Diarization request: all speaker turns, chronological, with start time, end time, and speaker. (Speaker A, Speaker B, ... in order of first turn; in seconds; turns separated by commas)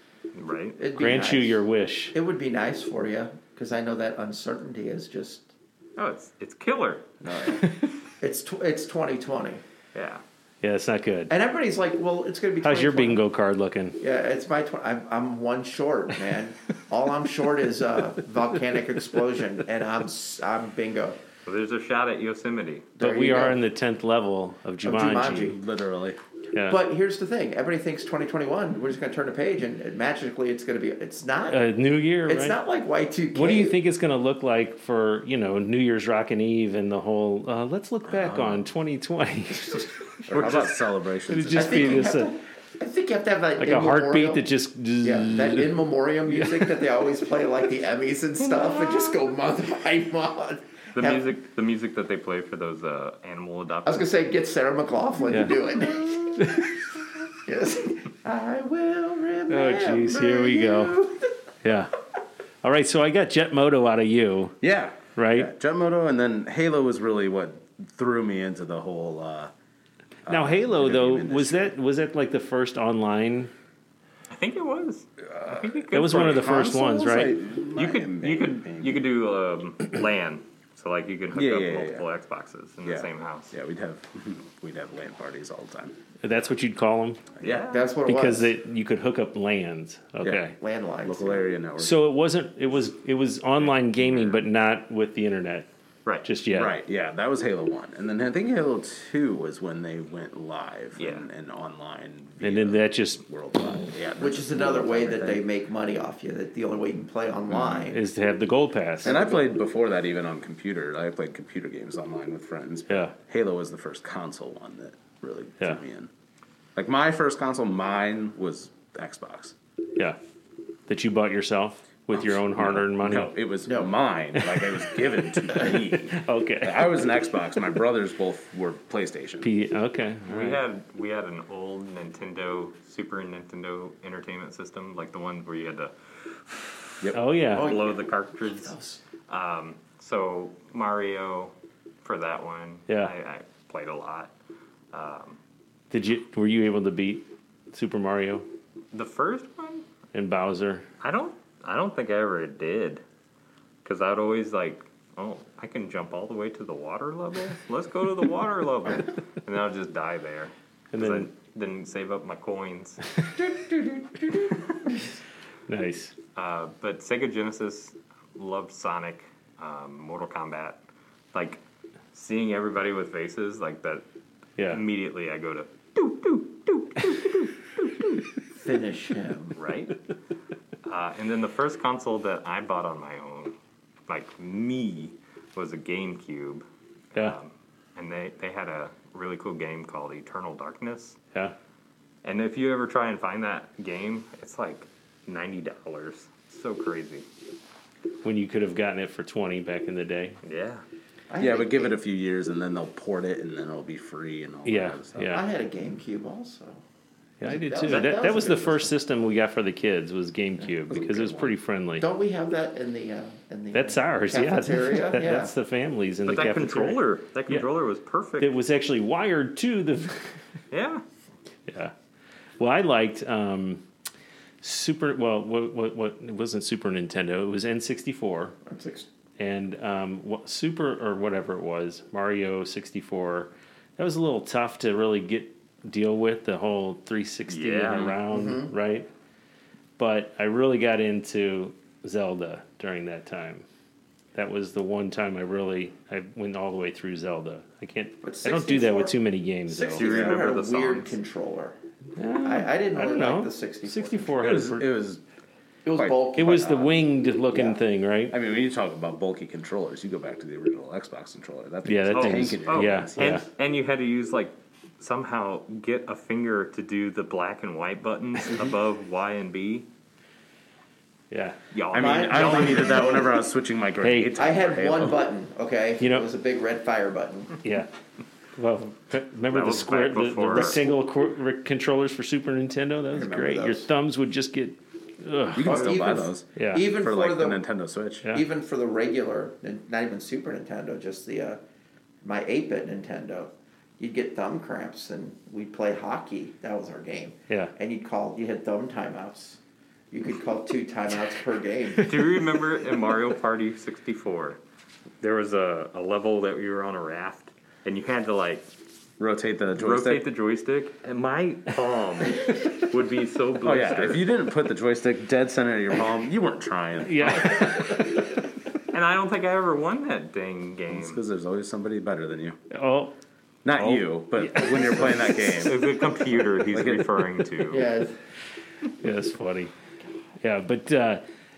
Speaker A: 0.3-0.8, Speaker B: 0.8-5.5, Speaker C: 0.9-2.1, Speaker A: 6.0-7.3, Speaker D: 7.2-7.6, Speaker C: 7.4-7.9, Speaker B: 8.2-9.6, Speaker A: 9.9-10.2, Speaker C: 10.6-11.3, Speaker B: 11.3-13.2, Speaker C: 12.6-14.0, Speaker B: 14.0-21.2, Speaker A: 21.4-22.9, Speaker B: 23.0-23.6, Speaker C: 23.0-25.6, Speaker B: 24.8-25.6, Speaker D: 25.4-26.2, Speaker C: 26.5-26.8, Speaker B: 26.6-31.6, Speaker C: 31.5-32.6, Speaker B: 32.2-33.7, Speaker C: 33.3-40.3, Speaker D: 38.1-38.7, Speaker D: 40.3-42.1, Speaker C: 41.3-42.3, Speaker B: 41.5-44.4, Speaker C: 43.6-46.8, Speaker B: 45.0-51.2, Speaker A: 50.9-54.1, Speaker B: 53.9-56.7, Speaker C: 55.3-55.5, Speaker C: 56.4-56.6, Speaker B: 57.4-61.3, Speaker C: 59.5-61.0, Speaker C: 61.6-61.9, Speaker C: 62.6-64.6, Speaker D: 64.6-69.5, Speaker C: 65.2-65.5, Speaker D: 70.2-71.7, Speaker C: 70.3-73.5, Speaker A: 74.3-76.5, Speaker D: 75.2-79.0, Speaker C: 75.9-77.3, Speaker A: 77.7-83.5, Speaker D: 81.3-82.0, Speaker D: 82.8-85.9, Speaker C: 86.2-87.2, Speaker D: 87.4-87.7, Speaker A: 87.4-87.9, Speaker B: 87.7-88.5, Speaker C: 88.0-90.5, Speaker B: 90.6-91.5, Speaker D: 91.0-92.0, Speaker C: 91.8-95.7, Speaker A: 93.9-94.4, Speaker C: 96.2-96.7, Speaker D: 96.5-105.4, Speaker A: 101.0-101.2, Speaker C: 102.4-103.2, Speaker B: 104.2-108.0, Speaker D: 107.5-107.9, Speaker C: 107.9-109.2, Speaker B: 109.0-109.4, Speaker D: 109.0-116.1, Speaker C: 112.9-113.1, Speaker D: 116.8-119.5, Speaker C: 120.9-123.3, Speaker D: 122.1-129.5, Speaker B: 123.7-123.9, Speaker C: 124.3-127.0, Speaker C: 129.4-130.6, Speaker A: 130.3-136.7, Speaker C: 137.1-137.7, Speaker A: 137.5-138.7, Speaker B: 137.5-139.0, Speaker A: 139.3-144.3, Speaker A: 144.9-145.4, Speaker C: 145.9-148.4, Speaker A: 148.9-149.8, Speaker C: 150.1-150.8, Speaker A: 151.0-153.0, Speaker A: 153.8-163.0, Speaker C: 160.9-161.3, Speaker C: 165.7-166.1, Speaker A: 166.3-170.8, Speaker A: 171.3-171.6, Speaker A: 172.1-174.0, Speaker A: 174.7-178.2, Speaker B: 178.6-179.5, Speaker A: 179.5-180.0, Speaker A: 180.8-183.5, Speaker A: 184.1-191.2, Speaker A: 192.2-197.2, Speaker C: 198.2-200.4, Speaker A: 200.4-200.8, Speaker B: 201.3-201.9, Speaker D: 201.4-205.4, Speaker C: 204.6-205.4, Speaker B: 205.2-206.8, Speaker C: 207.4-212.1, Speaker B: 207.4-208.9, Speaker D: 210.9-211.5, Speaker B: 212.0-215.5, Speaker C: 213.7-217.7, Speaker A: 216.2-218.6, Speaker C: 218.4-220.4, Speaker A: 220.7-221.0, Speaker C: 221.7-221.9, Speaker C: 222.6-223.8, Speaker C: 224.6-228.6, Speaker B: 228.7-229.1, Speaker C: 229.4-239.1, Speaker A: 237.5-238.2, Speaker B: 238.3-238.7, Speaker C: 240.0-243.6, Speaker C: 244.3-250.0, Speaker B: 248.2-249.1, Speaker B: 249.7-251.8, Speaker A: 249.9-251.2, Speaker D: 249.9-250.4, Speaker C: 252.2-254.8, Speaker B: 252.4-254.4, Speaker D: 254.4-255.2, Speaker B: 255.8-257.8, Speaker D: 255.9-256.6, Speaker C: 256.3-258.3, Speaker D: 258.3-263.4, Speaker C: 261.8-263.4, Speaker A: 262.1-269.9, Speaker C: 271.3-271.6, Speaker A: 271.7-273.2, Speaker D: 271.9-275.2, Speaker B: 271.9-273.4, Speaker C: 274.0-274.4, Speaker B: 274.3-277.6, Speaker C: 276.0-276.3, Speaker C: 277.6-277.9, Speaker C: 278.6-285.9, Speaker A: 279.5-280.8, Speaker B: 280.6-281.0, Speaker B: 283.1-283.9, Speaker D: 285.5-288.3, Speaker B: 285.6-287.6, Speaker C: 286.5-286.8, Speaker B: 288.3-291.6, Speaker B: 292.2-299.6, Speaker B: 300.1-302.3, Speaker A: 302.0-304.6, Speaker A: 305.2-308.6, Speaker D: 309.2-310.2, Speaker A: 309.8-314.2, Speaker D: 313.6-317.9, Speaker C: 317.0-318.1, Speaker A: 318.9-321.2, Speaker D: 320.9-322.6, Speaker C: 322.7-323.1, Speaker D: 323.6-326.0, Speaker A: 323.8-324.1, Speaker C: 324.4-325.1, Speaker A: 324.8-327.9, Speaker D: 326.7-327.3, Speaker B: 327.7-328.1, Speaker C: 329.0-329.7, Speaker C: 330.4-331.2